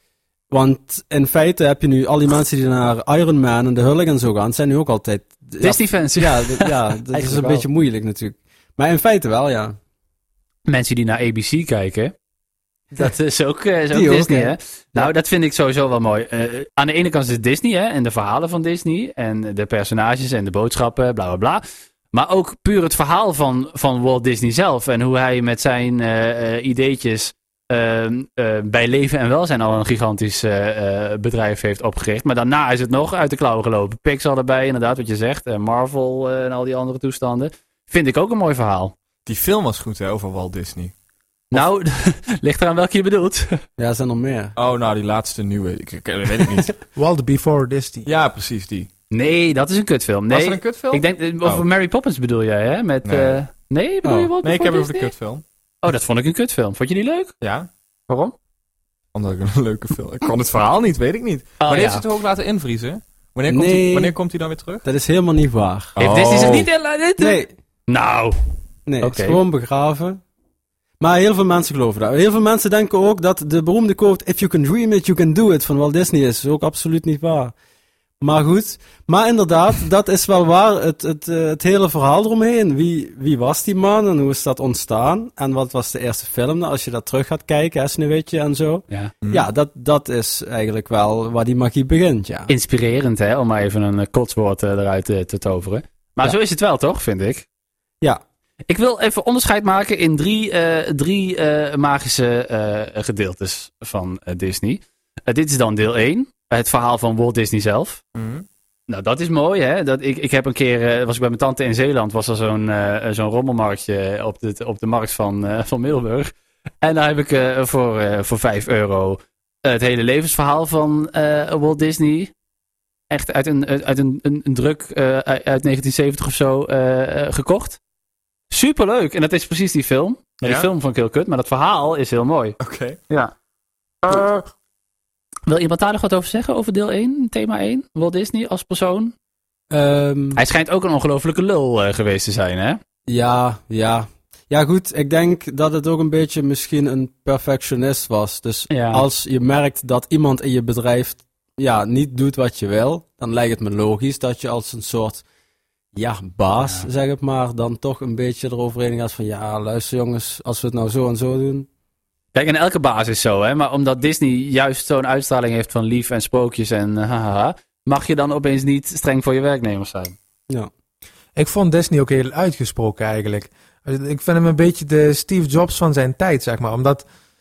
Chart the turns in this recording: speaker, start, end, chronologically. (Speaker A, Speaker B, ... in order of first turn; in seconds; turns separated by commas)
Speaker A: 0.5-9.8, Speaker B: 5.6-7.7, Speaker B: 10.7-12.1, Speaker B: 12.9-38.9, Speaker A: 13.9-15.1, Speaker C: 39.2-40.9, Speaker B: 41.5-43.6, Speaker A: 43.8-44.5, Speaker C: 44.5-46.7, Speaker D: 47.0-48.1, Speaker C: 48.0-48.9, Speaker B: 49.1-55.1, Speaker C: 50.3-51.6, Speaker C: 53.0-53.4, Speaker A: 54.0-54.3, Speaker C: 54.4-55.4, Speaker B: 55.8-57.3, Speaker C: 57.4-57.7, Speaker B: 58.1-58.3, Speaker C: 59.1-64.8, Speaker B: 61.6-62.0, Speaker A: 63.5-64.2, Speaker A: 64.8-66.0, Speaker C: 66.0-66.7, Speaker B: 66.0-68.3, Speaker A: 67.2-67.5, Speaker A: 68.8-70.2, Speaker B: 69.0-69.4, Speaker A: 71.0-77.5, Speaker A: 78.2-92.5, Speaker B: 92.5-97.5, Speaker B: 98.7-108.0, Speaker C: 108.1-108.5, Speaker B: 108.9-116.3, Speaker B: 116.8-122.3, Speaker B: 123.1-127.8, Speaker B: 128.5-132.6, Speaker C: 130.4-130.7, Speaker C: 132.6-133.0, Speaker B: 134.0-134.5, Speaker B: 135.5-139.1, Speaker A: 139.7-140.4, Speaker B: 140.3-142.8, Speaker A: 143.1-155.2, Speaker B: 148.7-149.1, Speaker A: 155.9-161.7, Speaker B: 162.3-170.1, Speaker D: 171.3-177.0